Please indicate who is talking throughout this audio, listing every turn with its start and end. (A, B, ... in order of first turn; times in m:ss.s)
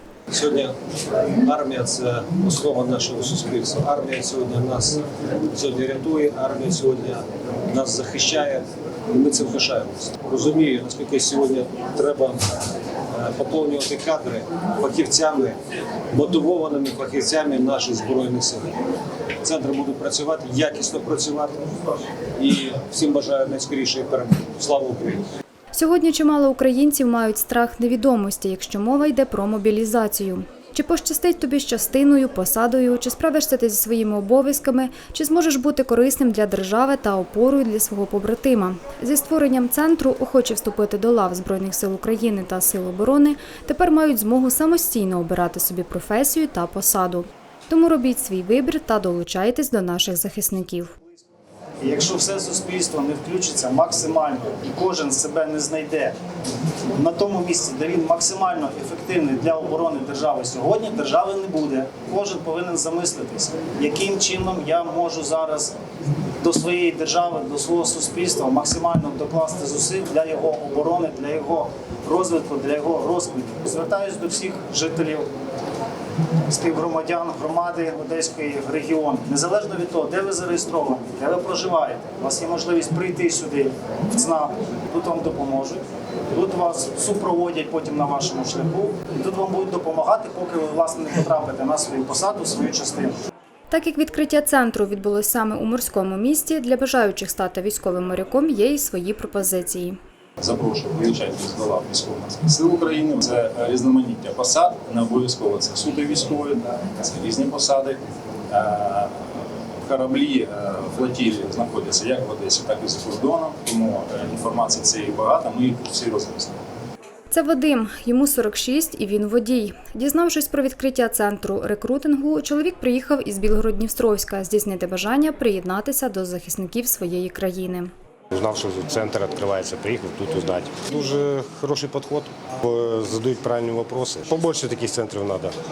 0:00.3-0:12.4 A
0:13.1-0:15.6 A
0:16.1-0:18.8 A
0:19.4-0:21.6 A
0:22.4-0:25.2 A
0:25.7-0:50.9 B
0:51.8-0:56.1 C
0:56.9-1:05.7 C
1:06.4-1:15.3 C
1:16.5-1:33.2 C
1:33.7-1:40.0 B
1:40.4-1:48.0 D
1:48.5-1:49.1 D
1:49.8-1:56.6 D
1:57.3-2:07.9 B
2:08.3-2:15.5 E